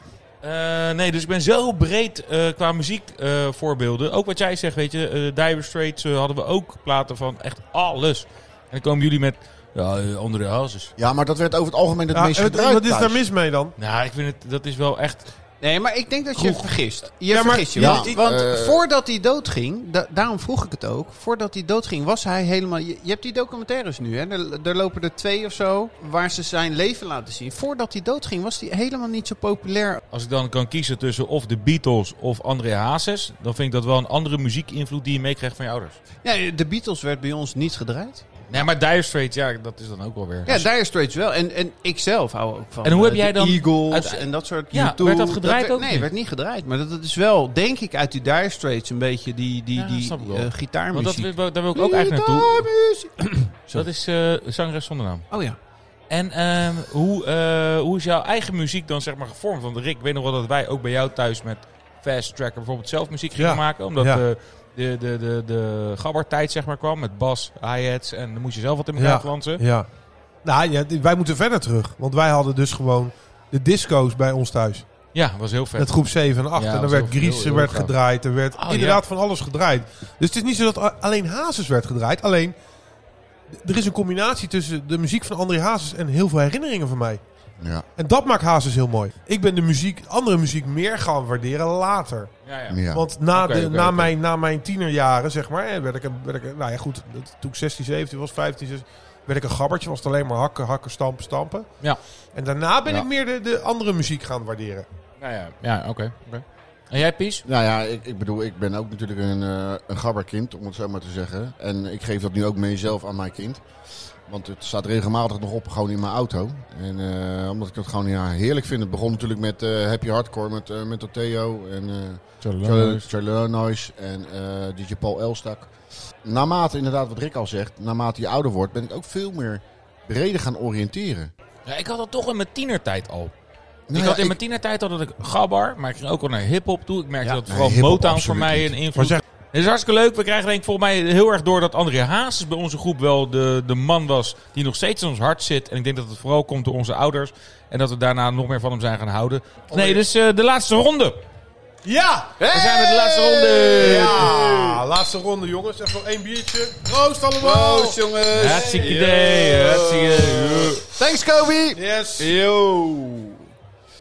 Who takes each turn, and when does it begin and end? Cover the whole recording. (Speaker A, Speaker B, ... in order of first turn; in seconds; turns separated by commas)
Speaker A: 0.4-10.9, Speaker B: 11.0-13.2, Speaker C: 12.1-13.7, Speaker A: 13.8-15.3, Speaker D: 15.6-30.0, Speaker C: 17.3-18.2, Speaker B: 17.8-18.8, Speaker A: 30.1-36.0, Speaker D: 36.2-38.3, Speaker A: 38.5-40.7, Speaker D: 40.5-53.9, Speaker A: 42.8-46.1, Speaker A: 49.8-52.7, Speaker A: 53.7-55.3, Speaker D: 55.3-55.6, Speaker A: 56.1-69.6, Speaker C: 63.4-64.2, Speaker C: 69.0-69.9, Speaker C: 70.4-74.9, Speaker A: 75.1-76.0, Speaker C: 75.8-82.6, Speaker A: 76.5-77.9, Speaker A: 78.5-79.0, Speaker C: 83.5-87.2, Speaker C: 88.0-92.3, Speaker A: 92.5-94.1, Speaker B: 92.7-93.0, Speaker C: 92.9-101.7, Speaker C: 102.3-104.9, Speaker A: 105.2-107.5, Speaker B: 107.5-113.6, Speaker B: 114.3-125.7, Speaker A: 122.4-123.0, Speaker B: 126.2-131.3, Speaker A: 131.7-133.3, Speaker B: 133.9-134.4, Speaker A: 133.9-151.2, Speaker B: 137.4-138.7, Speaker C: 138.9-139.2, Speaker C: 149.7-150.0, Speaker C: 151.8-152.3, Speaker D: 152.4-154.8, Speaker A: 152.5-154.3, Speaker C: 153.8-159.2, Speaker D: 157.4-163.4, Speaker A: 158.3-160.8, Speaker C: 161.8-162.4